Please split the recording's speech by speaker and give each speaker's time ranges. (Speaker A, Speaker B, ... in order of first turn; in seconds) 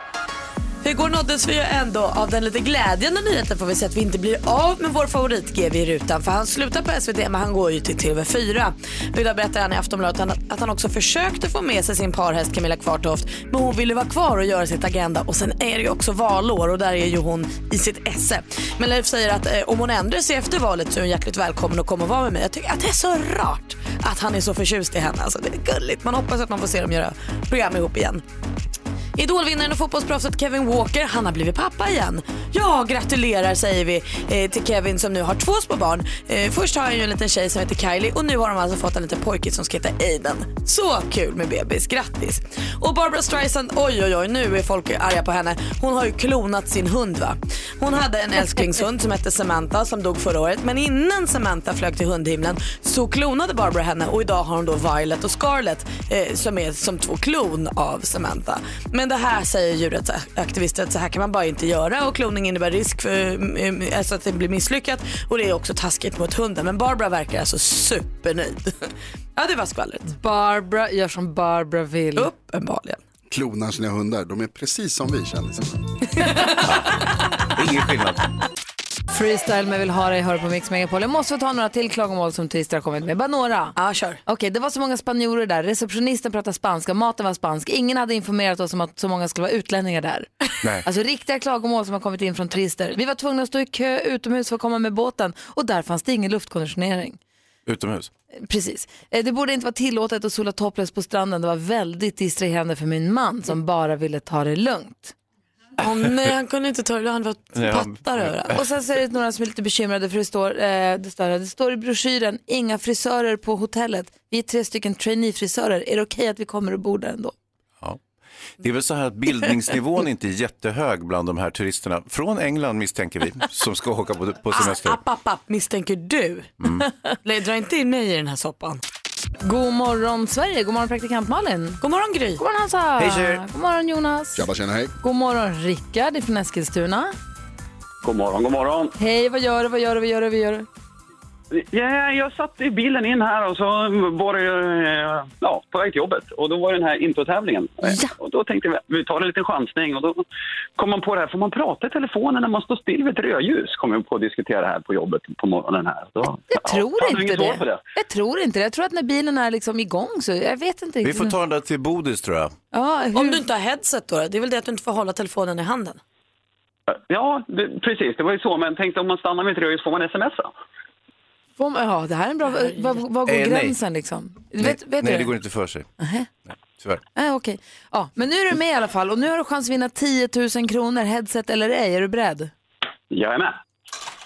Speaker A: 0.8-28.2, 29.1-70.1, 72.2-73.0, 76.2-76.5, 83.8-84.2, 105.8-108.5, 124.5-126.5, 127.2-128.8, 131.8-132.4, 163.1-166.0, 172.5-173.0
Speaker B: 70.1-72.3, 79.1-90.3, 90.8-97.2, 98.4-105.1, 108.5-117.3, 129.4-131.8, 132.4-134.4, 135.0-137.1, 138.9-140.7, 147.8-148.1, 156.5-161.3, 162.7-163.4, 171.6-175.3, 176.0-176.3, 177.1-182.5
Speaker C: 73.3-75.8, 134.3-134.9
Speaker D: 76.7-77.0, 77.5-78.2, 97.7-98.1, 107.5-108.5, 118.6-125.0, 126.6-126.8, 133.0-133.4, 161.0-162.5, 173.2-173.8, 174.6-175.9, 176.7-177.0
Speaker E: 138.0-138.9, 141.7-150.1, 150.8-156.4, 156.9-157.8, 167.1-170.3, 183.1-183.4